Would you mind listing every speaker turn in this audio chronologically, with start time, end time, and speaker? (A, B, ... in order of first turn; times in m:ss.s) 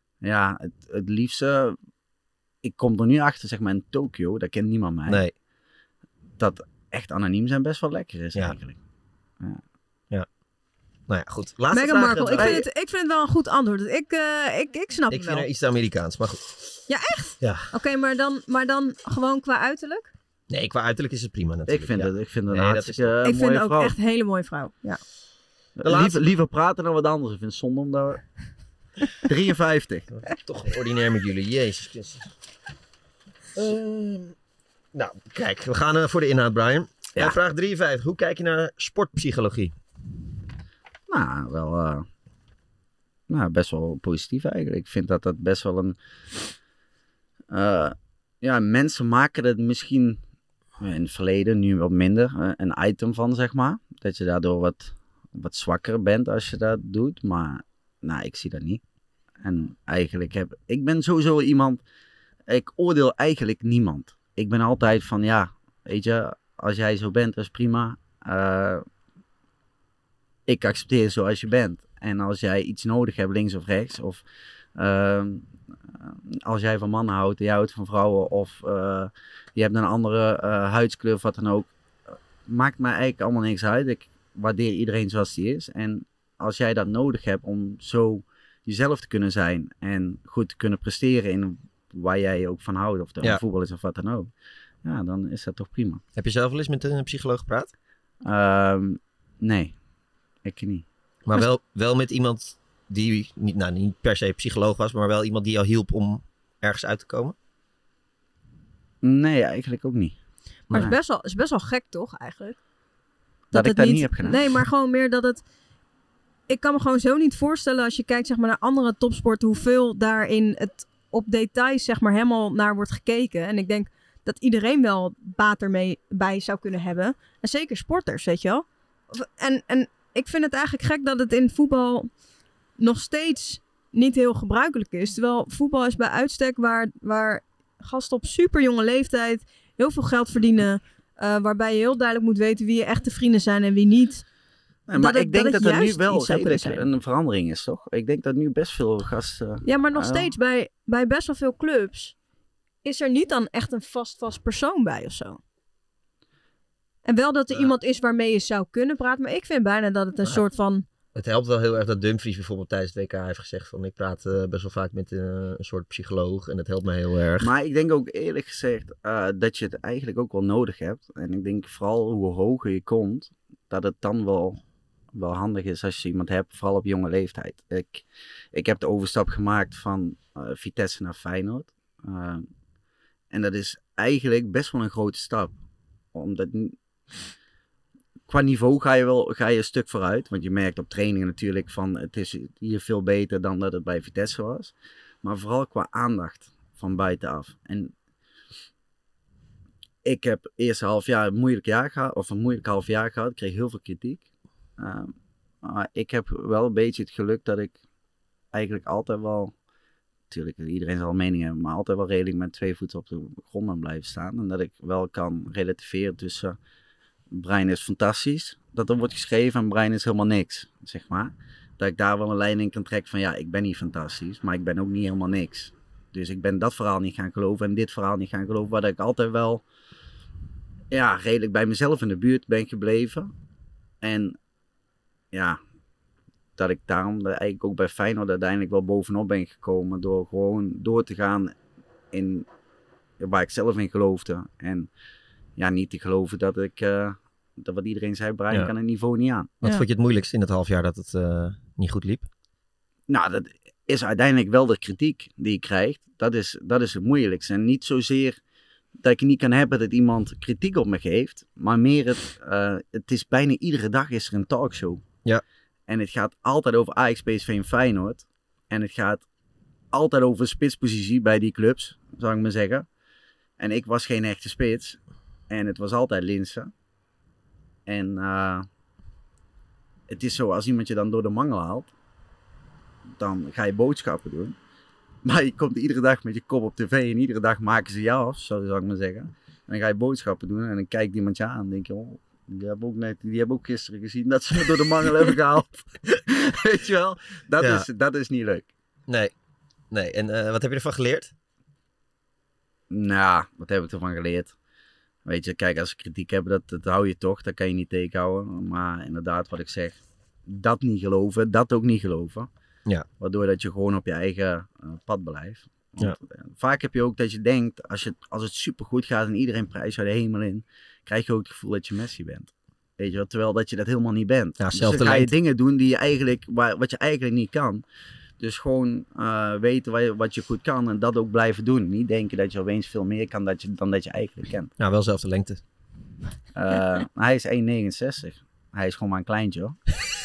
0:00.2-0:01.8 A
0:02.6-0:05.2 A
0:05.1-0:05.3 B
0:06.4-0:08.8 A
0:11.1-0:12.6 B
0:11.7-0:15.5 C
0:12.4-0:12.6 A
0:15.1-0:16.6 B
0:16.9-0:20.1 C
0:17.4-0:17.7 B
0:20.5-0:23.1 B
0:21.7-0:23.9 A
0:23.2-0:25.0 C
0:25.8-0:28.2 A
0:25.8-0:26.2 B
0:29.2-0:30.1 A
0:30.2-0:32.3 B
0:33.6-0:34.3 B
0:34.9-0:39.7 B
0:41.1-0:42.0 A
0:43.3-0:46.0 A
0:47.5-0:50.2 A
0:50.8-0:58.8 A
0:59.4-1:01.8 A
1:02.5-1:08.8 A
1:10.5-1:14.2 A
1:14.8-1:15.4 A
1:16.0-1:34.3 A
1:34.8-1:36.0 A
1:36.2-1:37.7 B
1:38.2-1:39.7 A
1:40.4-1:40.8 A
1:41.2-1:47.3 B
1:49.0-1:50.2 A
1:50.7-1:52.6 C
1:53.5-1:54.4 A
1:53.5-1:55.4 C
1:56.5-2:12.1 C
2:12.8-2:24.2 C
2:24.9-2:30.3 A
2:24.9-2:26.8 C
2:29.6-2:32.1 C
2:32.8-2:35.4 C
2:37.0-2:40.8 C
2:41.1-2:47.5 B
2:47.4-2:54.6 A
2:55.1-3:02.4 A
3:03.3-3:05.5 A
3:06.1-3:06.8 A
3:08.3-3:17.9 A
3:20.0-3:24.2 A
3:24.8-3:27.8 A
3:28.5-3:29.5 A
3:30.3-3:36.6 A
3:37.3-3:49.6 A
3:50.9-3:53.3 A
3:54.0-3:54.4 A
3:55.3-3:55.6 A
3:56.6-4:01.5 A
4:02.1-4:02.4 A
4:03.2-4:04.9 A
4:05.6-4:09.5 A
4:09.6-4:12.3 B
4:13.1-4:18.4 A
4:19.0-4:25.0 A
4:25.9-4:29.2 A
4:29.9-4:32.9 A
4:33.6-4:35.0 A
4:35.5-4:36.7 A
4:37.9-4:38.6 A
4:40.1-4:41.9 A
4:43.2-4:44.6 A
4:45.2-4:58.7 A
4:57.6-4:57.9 B
4:59.1-4:59.3 B
4:59.9-5:01.3 B
5:02.9-5:04.5 A
5:05.2-5:12.5 A
5:13.2-5:27.8 A
5:24.6-5:25.3 B
5:28.4-5:34.7 A
5:34.8-5:35.6 B
5:36.6-5:39.8 A